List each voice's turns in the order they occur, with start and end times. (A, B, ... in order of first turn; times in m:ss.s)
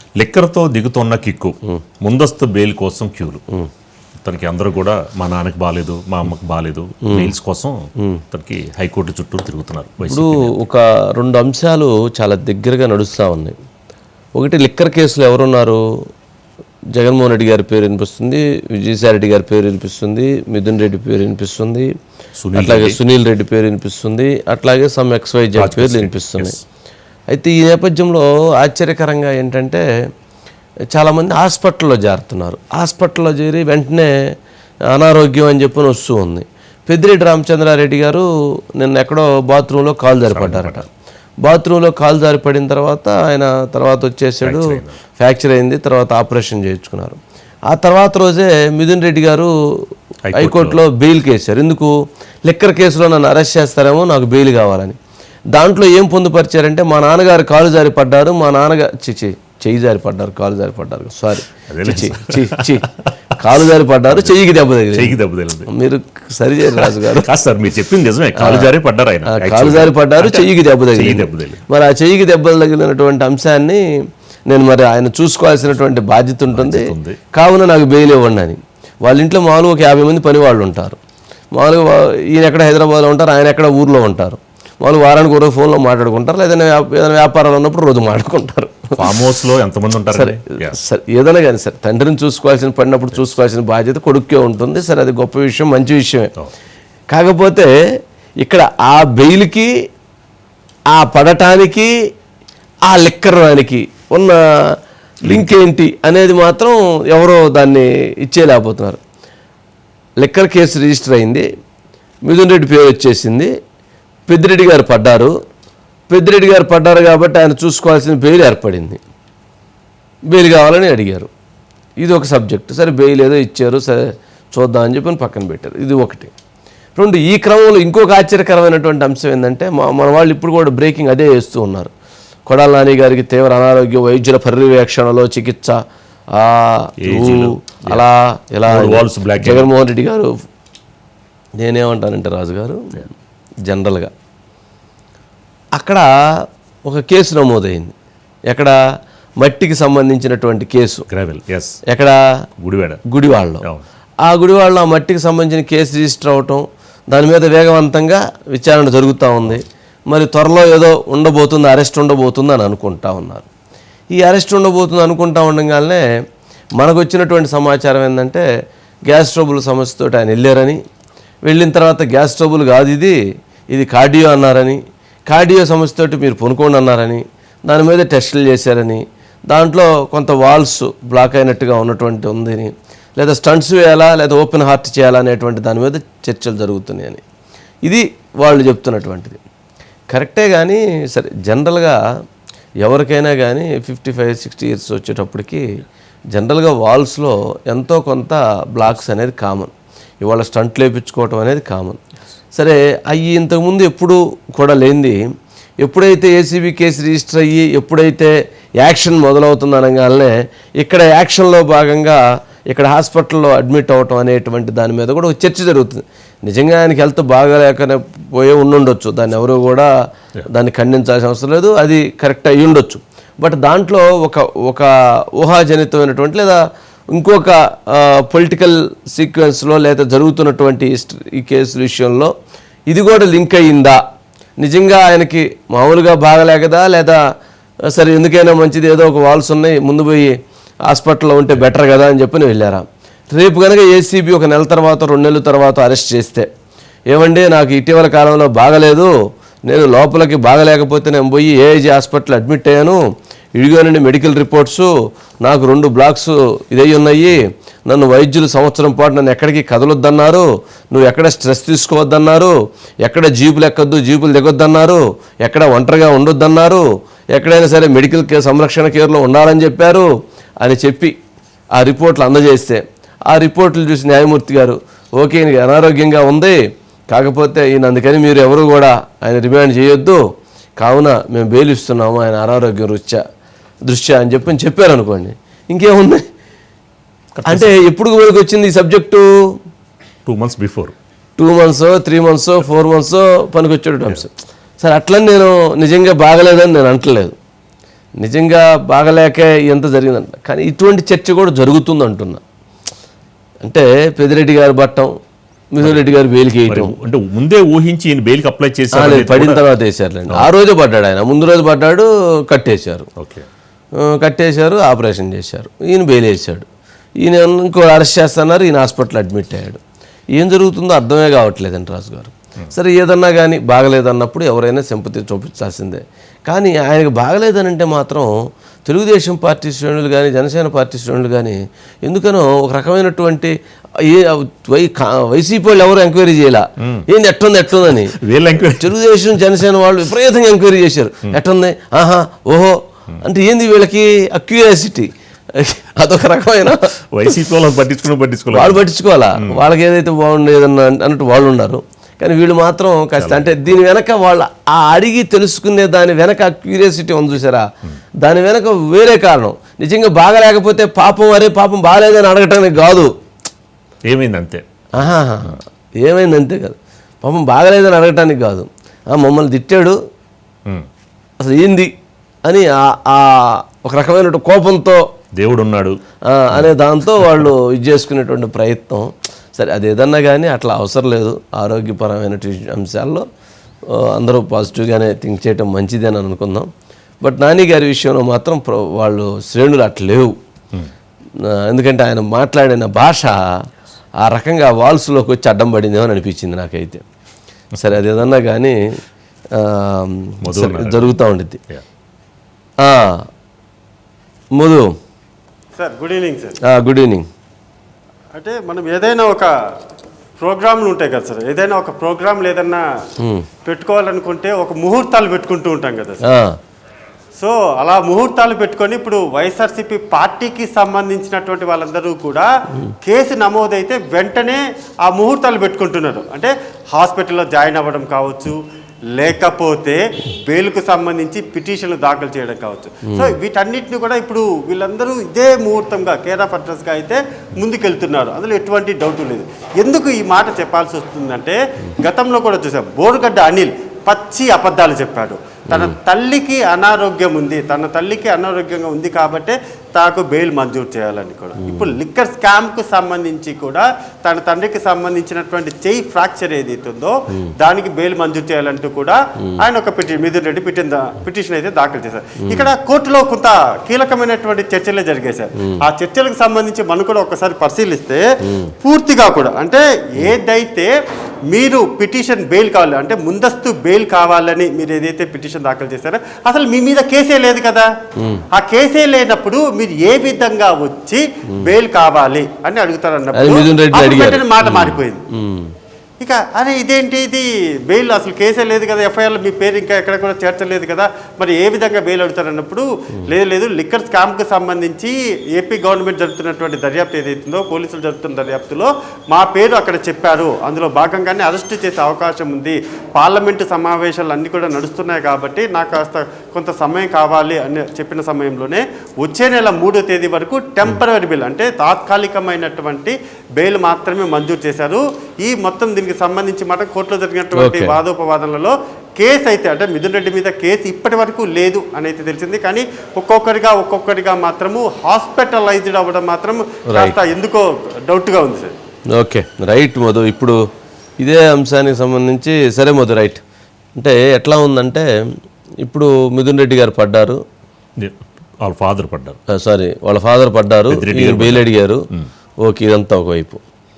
0:00.2-0:03.4 A
0:04.2-0:10.5 A
0:07.1-0:07.3 B
0:10.1-0:13.6 B
0:14.4-0:15.8 B
0:16.9-0:21.9 B
0:22.4-0:23.0 A
0:22.5-0:26.5 B
0:25.6-0:26.6 A
0:27.3-0:29.8 B
0:30.9-0:34.4 B
0:34.9-0:40.9 B
0:40.3-0:40.9 A
0:41.4-0:55.0 B
0:44.4-0:45.0 A
0:50.3-0:50.8 A
0:55.5-1:02.9 B
1:01.7-1:03.1 A
1:03.4-1:05.2 B
1:04.9-1:05.7 A
1:05.7-1:07.3 B
1:06.8-1:11.6 A
1:08.4-1:08.7 B
1:09.3-1:13.8 B
1:14.5-1:21.0 B
1:16.5-1:17.2 A
1:21.5-1:28.9 B
1:29.0-1:30.8 A
1:30.1-1:36.3 B
1:37.1-1:37.7 B
1:38.4-1:39.7 B
1:40.9-1:41.9 B
1:42.8-1:49.0 B
1:50.2-1:51.5 B
1:52.3-1:53.5 B
1:54.3-1:55.3 B
1:56.1-1:59.0 B
2:00.3-2:01.3 B
2:02.0-2:06.3 B
2:07.0-2:11.9 B
2:12.5-2:15.8 B
2:16.3-2:20.3 B
2:17.0-2:18.0 A
2:18.7-2:19.7 A
2:21.6-2:23.1 B
2:23.7-2:24.1 B
2:25.8-2:27.9 B
2:28.5-2:28.8 B
2:29.4-2:31.1 B
2:31.1-2:31.8 A
2:31.9-2:32.2 B
2:32.6-2:33.0 A
2:33.1-2:33.7 B
2:34.2-2:43.5 B
2:44.1-2:46.0 B
2:46.8-2:48.4 B
2:49.1-2:50.8 B
2:51.4-2:53.2 B
2:53.7-3:07.2 B
3:07.8-3:09.4 B
3:10.1-3:12.0 B
3:12.8-3:15.6 B
3:16.3-3:22.0 B
3:22.6-3:25.2 B
3:25.8-3:39.9 B
3:40.5-3:46.6 B
3:47.1-3:52.3 B
3:52.9-3:54.0 B
3:54.6-3:57.2 B
3:57.8-4:00.3 B
4:00.9-4:06.5 B
4:07.1-4:09.1 B
4:09.7-4:13.0 B
4:13.6-4:14.9 B
4:15.4-4:31.1 B
4:31.8-4:36.6 B
4:37.1-4:40.2 B
4:40.8-4:43.2 B
4:43.9-4:46.2 B
4:47.4-4:47.7 A
4:47.5-4:49.3 B
4:50.3-4:51.0 A
4:51.4-4:57.3 B
4:58.2-5:02.4 B
5:03.6-5:05.1 B
5:05.7-5:06.9 B
5:06.7-5:09.7 A
5:08.9-5:13.1 B
5:13.2-5:13.5 A
5:14.0-5:16.7 B
5:17.2-5:19.8 B
5:20.3-5:28.3 B
5:28.8-5:46.9 B
5:36.8-5:37.1 A
5:38.0-5:38.9 A
5:47.1-5:49.6 A
5:48.5-5:57.6 B
5:53.2-5:53.7 A
5:58.2-6:03.1 B
6:04.1-6:05.6 A
6:05.0-6:10.0 B
6:11.4-6:11.9 B
6:12.4-6:15.0 B
6:15.4-6:16.0 A
6:16.3-6:23.3 B
6:23.9-6:26.7 B
6:27.2-6:30.4 B
6:31.5-6:33.4 B
6:34.2-6:37.0 B
6:37.8-6:38.8 B
6:39.5-6:41.6 B
6:40.4-6:41.2 A
6:42.8-6:43.2 B
6:44.6-6:44.9 B
6:45.8-6:46.6 C
6:46.6-6:47.2 B
6:48.4-6:49.5 C
6:50.4-6:52.8 C
6:53.2-6:53.5 B
6:53.6-6:56.2 C
6:56.2-6:56.6 B
6:57.4-7:02.5 C
7:03.0-7:08.6 C
7:09.1-7:48.2 C
7:13.1-7:13.4 B
7:25.7-7:26.0 B
7:31.6-7:31.9 B
7:42.4-7:42.7 B
7:48.4-7:48.7 B
7:48.8-7:50.9 C
7:51.5-7:57.9 C
7:58.2-7:58.4 B
7:58.5-8:05.2 C
8:03.3-8:05.7 B
8:06.2-8:48.7 C
8:37.5-8:38.0 B
8:46.9-8:47.2 B
8:49.1-8:50.6 B
8:51.2-8:53.4 B
8:54.0-8:55.1 B
8:55.8-8:57.4 B
8:58.0-8:59.4 A
8:59.5-9:02.0 B
9:00.9-9:02.3 A
9:02.6-9:03.6 B